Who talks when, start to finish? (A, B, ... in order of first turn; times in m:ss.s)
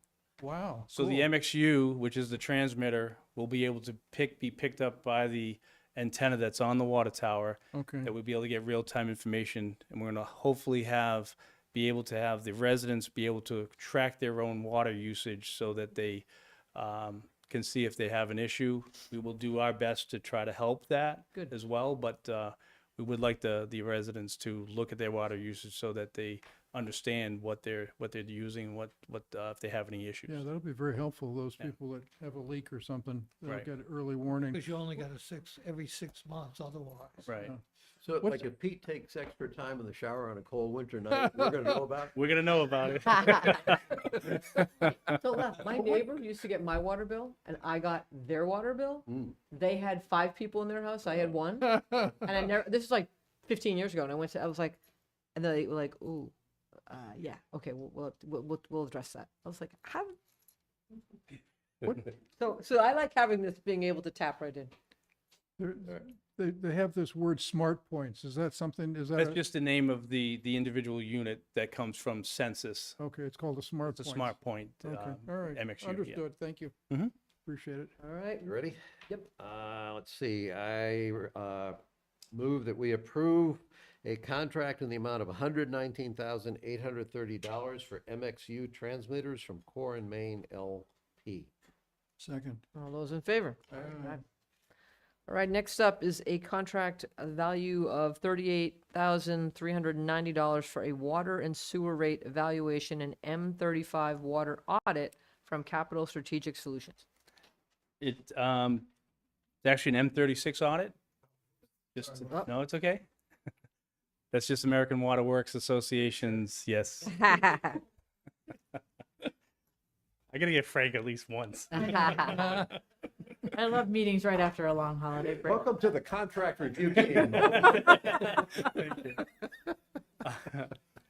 0:00.4-0:01.3 A
0:00.9-0:30.4 B
0:07.7-0:08.1 A
0:30.3-0:34.7 A
0:34.5-0:37.3 C
0:37.3-0:37.5 B
0:38.0-0:42.1 D
0:42.1-0:44.6 B
0:43.1-0:43.8 E
0:44.3-0:54.8 E
0:49.1-0:49.4 D
0:55.4-0:56.3 E
0:56.9-1:00.2 E
1:02.4-1:04.7 E
1:05.6-1:09.4 A
1:09.2-1:13.0 B
1:13.0-1:16.8 A
1:13.9-1:16.2 B
1:17.5-1:18.0 A
1:18.0-1:18.5 E
1:18.4-1:21.8 D
1:22.3-1:31.5 D
1:32.8-1:34.2 E
1:33.8-1:34.1 A
1:35.3-1:47.0 E
1:48.0-1:48.9 B
1:49.6-1:51.0 B
1:52.0-1:53.1 B
1:54.3-1:57.8 B
1:57.2-1:57.8 E
2:00.3-2:02.8 B
2:01.7-2:02.6 E
2:03.5-2:05.7 F
2:05.4-2:07.8 D
2:07.4-2:09.2 B
2:10.2-2:10.7 B